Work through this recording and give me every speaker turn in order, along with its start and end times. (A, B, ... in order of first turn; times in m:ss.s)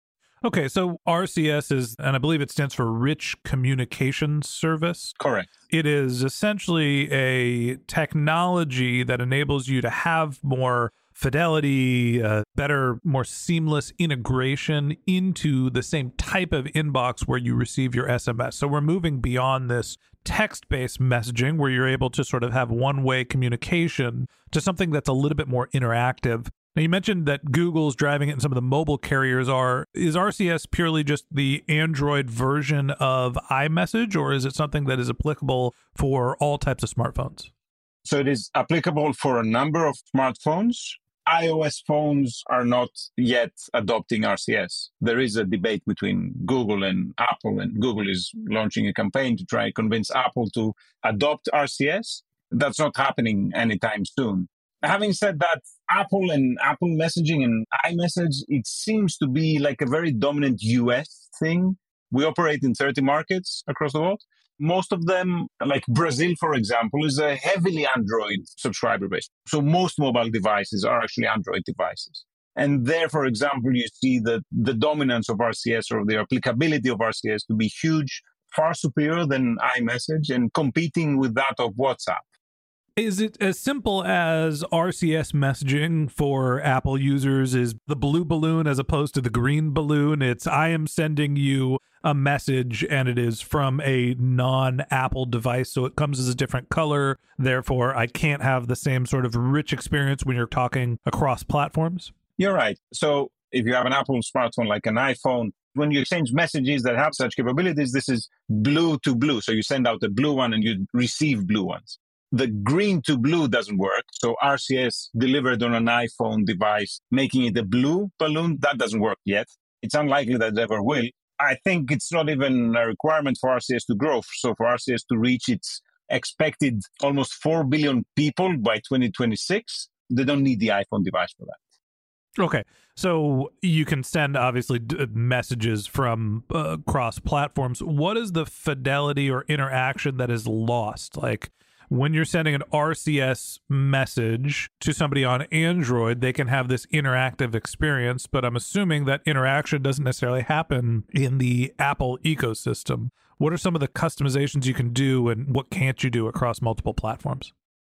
0:00.4-0:05.2 A
0:05.2-0:05.5 B
0:05.7-0:37.5 A
0:38.0-1:22.2 B
1:23.0-1:42.1 A
1:42.4-2:11.6 B
2:12.4-2:37.5 A